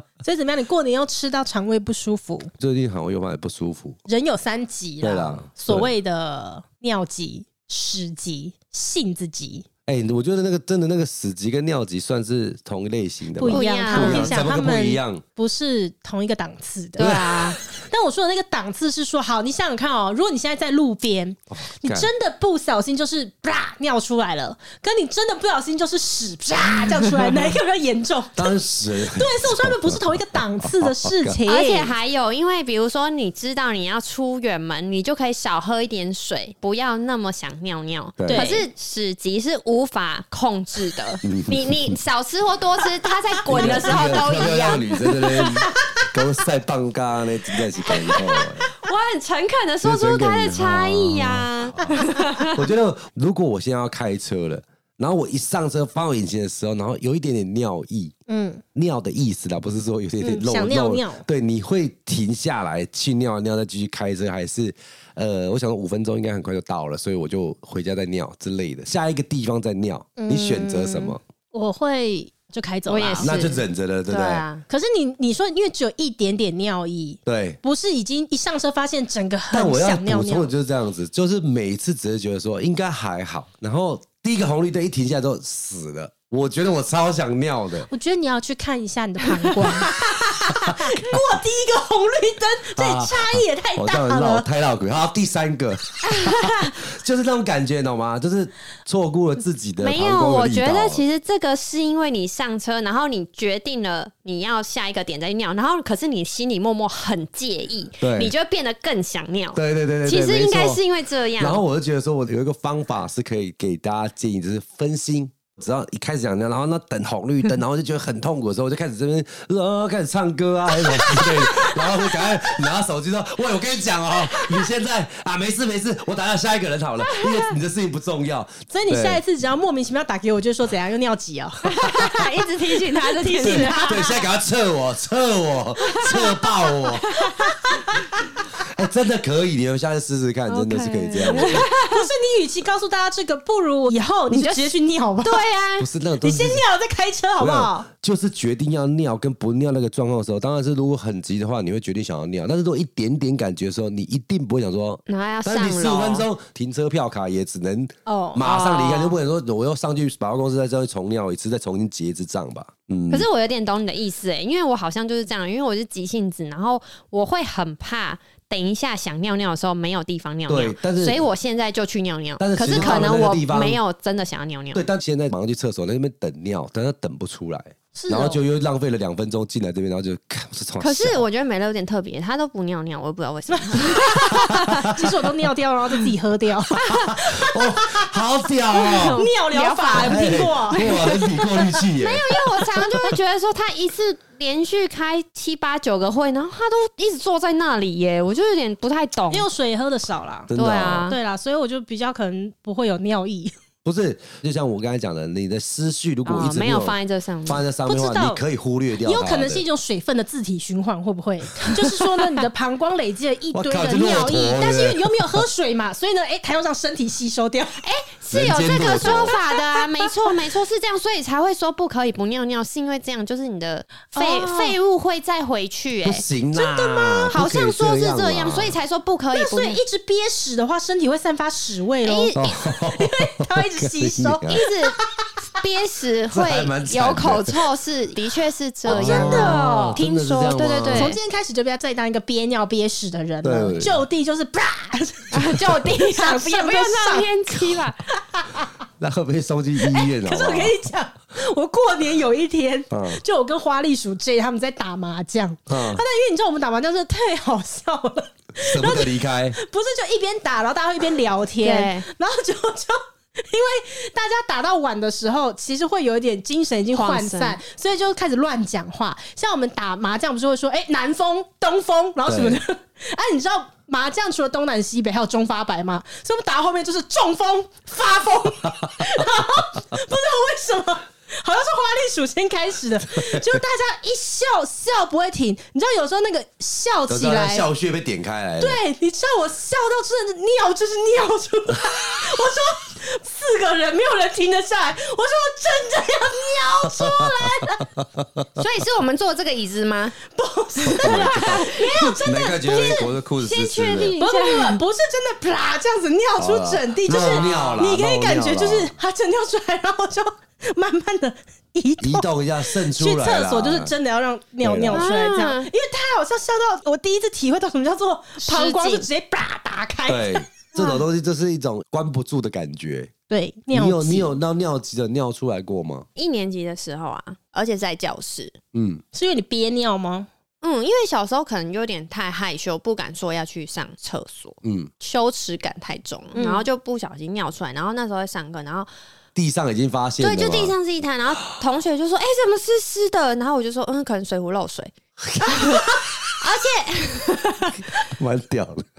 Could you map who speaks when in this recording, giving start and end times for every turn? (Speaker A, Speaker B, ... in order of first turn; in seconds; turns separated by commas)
Speaker A: 0.2-2.5, Speaker B: 2.6-4.0, Speaker A: 4.1-9.7, Speaker B: 5.0-5.9, Speaker B: 9.9-15.2, Speaker A: 13.4-31.9, Speaker C: 13.5-14.3, Speaker C: 17.0-17.6, Speaker B: 17.0-17.4, Speaker B: 21.5-22.1, Speaker B: 28.4-31.4, Speaker C: 31.5-45.7, Speaker B: 38.2-38.5, Speaker A: 38.3-38.7, Speaker B: 41.2-42.0, Speaker B: 43.5-48.7, Speaker A: 43.6-44.0, Speaker C: 47.8-52.7, Speaker B: 49.8-58.1, Speaker A: 58.3-58.6, Speaker B: 58.8-71.2, Speaker A: 60.2-61.3, Speaker A: 70.2-73.4, Speaker C: 72.9-74.7, Speaker B: 73.2-74.4, Speaker A: 74.7-80.5, Speaker B: 77.3-77.6, Speaker B: 79.5-87.9, Speaker A: 87.9-94.5, Speaker B: 90.5-91.2, Speaker B: 92.8-101.0, Speaker C: 96.1-96.8, Speaker C: 99.8-111.6, Speaker B: 108.0-108.3, Speaker B: 109.5-110.8, Speaker B: 111.4-129.2, Speaker A: 121.1-121.7, Speaker C: 127.0-127.5, Speaker A: 128.7-134.2, Speaker C: 131.7-134.1, Speaker B: 131.9-132.1, Speaker B: 133.4-137.2, Speaker C: 135.9-137.5, Speaker A: 137.3-138.0, Speaker B: 138.5-141.7, Speaker C: 140.5-142.1, Speaker A: 141.4-145.4, Speaker C: 144.3-145.9, Speaker B: 145.8-146.6, Speaker A: 146.2-147.9, Speaker B: 147.4-163.3, Speaker C: 155.1-156.3, Speaker A: 158.1-158.4, Speaker C: 158.4-159.2, Speaker C: 163.1-174.8, Speaker B: 170.5-171.2, Speaker B: 172.4-173.8, Speaker A: 172.6-173.2, Speaker B: 174.7-181.2, Speaker A: 177.9-178.4, Speaker C: 180.8-184.7, Speaker A: 183.7-188.1, Speaker B: 184.3-184.9, Speaker B: 186.9-189.2, Speaker C: 188.8-199.5, Speaker A: 189.1-191.2, Speaker B: 189.9-193.1, Speaker A: 199.3-200.5, Speaker B: 200.5-201.1, Speaker C: 200.6-201.2, Speaker A: 201.1-203.5, Speaker B: 203.8-209.6, Speaker C: 206.3-207.6, Speaker A: 207.9-208.4, Speaker A: 209.0-217.8, Speaker B: 213.5-215.4, Speaker C: 217.8-229.8, Speaker B: 218.3-219.3, Speaker A: 219.1-220.1, Speaker A: 224.1-224.8, Speaker B: 226.0-228.8, Speaker A: 229.3-235.0, Speaker C: 232.0-232.6, Speaker B: 232.3-234.6, Speaker C: 234.5-235.0, Speaker C: 235.6-241.2, Speaker B: 236.3-237.6, Speaker A: 238.9-240.0, Speaker B: 238.9-241.2, Speaker A: 240.9-248.7, Speaker B: 243.4-244.0, Speaker C: 245.3-248.1, Speaker B: 249.0-250.8, Speaker A: 249.9-287.7, Speaker B: 252.9-253.2, Speaker B: 255.7-256.0, Speaker B: 258.6-259.6, Speaker C: 261.6-262.1, Speaker C: 266.9-267.6, Speaker B: 272.3-272.6, Speaker B: 278.6-279.6, Speaker B: 287.1-288.8, Speaker A: 288.6-297.9, Speaker B: 296.9-298.5, Speaker C: 298.6-300.2, Speaker A: 300.3-303.1, Speaker B: 300.8-301.6, Speaker C: 301.0-302.5, Speaker B: 302.2-304.1, Speaker C: 303.4-304.8, Speaker A: 304.2-320.5, Speaker B: 306.4-308.9, Speaker C: 307.1-307.7, Speaker B: 312.0-313.9, Speaker B: 314.6-315.1, Speaker C: 314.9-315.7, Speaker C: 318.4-319.1, Speaker B: 320.1-323.1, Speaker C: 320.8-321.0, Speaker A: 323.3-324.3, Speaker B: 323.7-326.1, Speaker C: 326.2-328.6, Speaker B: 328.7-329.0, Speaker A: 329.1-330.3, Speaker C: 330.6-338.9, Speaker B: 334.6-334.9, Speaker A: 336.3-336.7, Speaker B: 339.4-340.8, Speaker C: 340.2-344.9, Speaker B: 345.4-345.9, Speaker C: 345.5-348.0, Speaker B: 348.2-348.9